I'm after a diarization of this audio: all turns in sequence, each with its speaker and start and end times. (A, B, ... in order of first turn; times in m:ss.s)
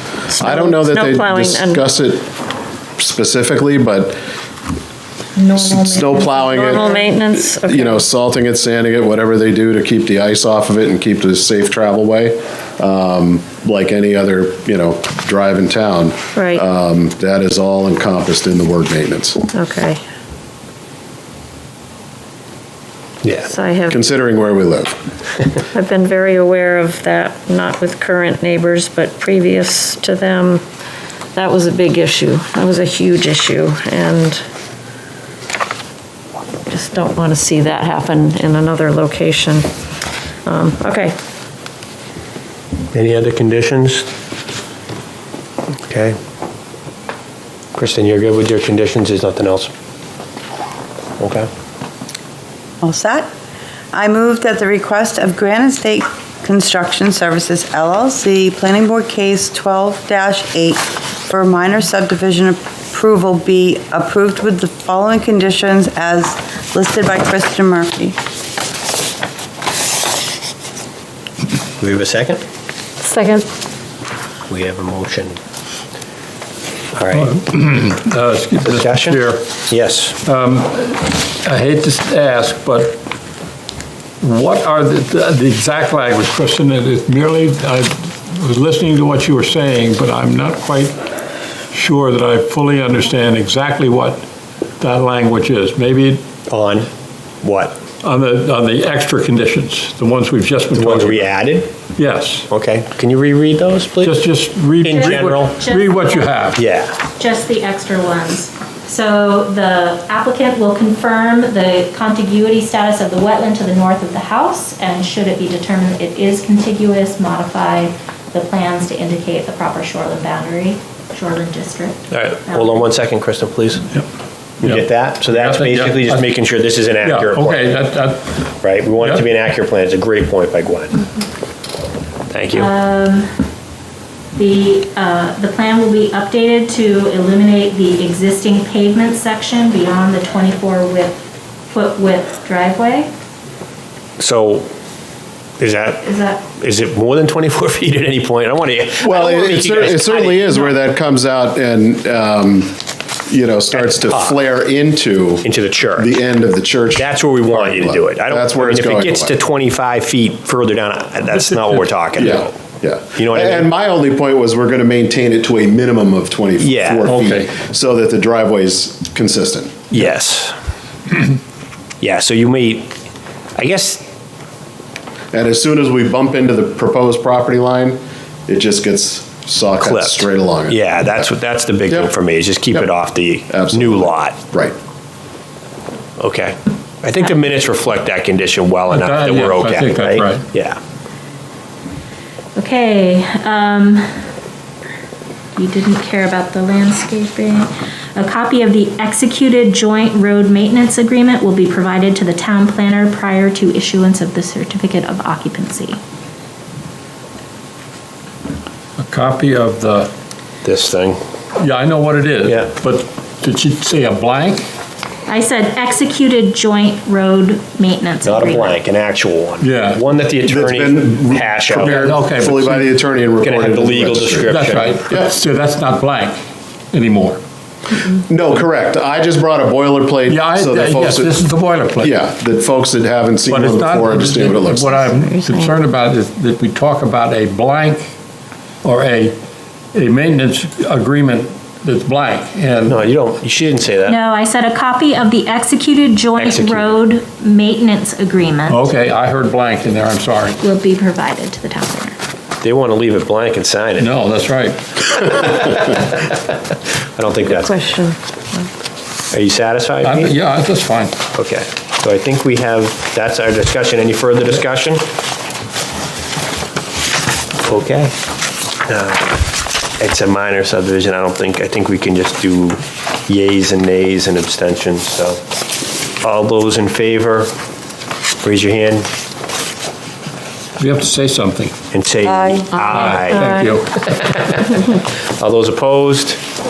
0:00.3-0:01.9 A
0:00.4-0:02.3 B
0:03.0-0:04.2 B
0:05.4-0:07.1 C
0:05.6-0:06.9 B
0:06.4-0:08.1 A
0:07.4-0:19.4 B
0:16.3-0:16.6 A
0:19.5-0:20.0 A
0:23.4-0:24.0 A
0:23.9-0:25.0 B
0:25.7-0:30.6 A
0:31.3-0:34.4 A
0:36.7-0:39.7 A
0:40.4-0:41.1 A
0:42.9-0:44.1 D
0:45.8-0:46.2 D
0:47.7-0:49.7 D
0:51.2-0:51.5 D
0:52.8-0:53.3 E
0:53.9-1:08.1 E
1:11.8-1:12.4 D
1:13.1-1:13.4 A
1:14.5-1:15.4 D
1:16.9-1:17.4 D
1:17.1-1:19.4 F
1:18.7-1:20.2 D
1:20.2-1:23.0 F
1:24.2-1:31.0 F
1:31.7-1:34.2 F
1:34.8-1:36.2 F
1:36.5-1:36.9 D
1:37.4-1:37.8 D
1:38.0-1:41.4 F
1:40.7-1:41.7 D
1:42.0-1:42.5 F
1:42.5-1:44.2 D
1:44.0-1:46.6 F
1:44.8-1:45.6 D
1:44.9-1:46.4 C
1:46.5-1:46.9 D
1:47.1-2:02.9 C
2:02.1-2:03.9 D
2:04.6-2:07.7 D
2:04.6-2:06.4 F
2:07.0-2:08.4 F
2:08.6-2:11.0 D
2:12.3-2:12.7 D
2:12.5-2:13.3 C
2:14.3-2:23.1 C
2:24.2-2:24.7 D
2:25.6-2:30.8 D
2:26.0-2:26.4 C
2:29.0-2:32.7 B
2:33.3-2:39.3 B
2:33.7-2:34.4 D
2:35.4-2:36.1 D
2:37.0-2:42.6 D
2:41.3-2:41.9 F
2:42.2-2:49.9 B
2:43.2-2:43.7 D
2:46.6-2:47.1 D
2:47.0-2:47.5 F
2:49.9-2:50.5 D
2:52.0-2:52.9 D
2:53.6-2:54.0 D
2:55.3-3:01.3 B
2:59.8-3:04.4 D
3:01.9-3:02.1 B
3:03.5-3:04.8 B
3:06.2-3:10.8 D
3:08.9-3:10.4 F
3:12.6-3:14.1 C
3:15.6-3:26.0 C
3:29.0-3:30.1 F
3:30.6-3:31.2 D
3:31.6-3:34.7 F
3:32.4-3:32.7 D
3:35.3-3:38.8 C
3:38.2-3:42.0 D
3:39.6-3:40.0 F
3:40.4-3:45.3 B
3:41.6-3:42.9 F
3:43.4-3:45.0 D
3:44.4-3:46.4 F
3:46.9-3:47.4 F
3:48.2-3:51.4 B
3:50.3-3:52.1 F
3:52.0-3:54.9 B
3:53.4-3:58.1 F
3:54.8-3:55.8 A
3:58.8-3:59.4 F
3:59.9-4:03.0 F
4:02.8-4:04.2 D
4:04.0-4:08.8 C
4:06.4-4:06.9 D
4:08.7-4:10.6 F
4:10.6-4:12.2 C
4:12.6-4:14.1 D
4:14.0-4:15.2 F
4:15.1-4:16.4 D
4:17.1-4:17.7 D
4:17.4-4:18.6 A
4:19.3-4:20.3 D
4:20.0-4:21.2 F
4:21.3-4:25.0 D
4:27.6-4:28.1 D
4:28.8-4:29.4 D
4:30.0-4:35.4 D
4:36.2-4:37.5 D
4:38.4-4:39.1 D
4:40.8-4:41.7 F
4:41.9-4:46.4 D
4:42.2-4:43.8 A
4:42.8-4:43.9 F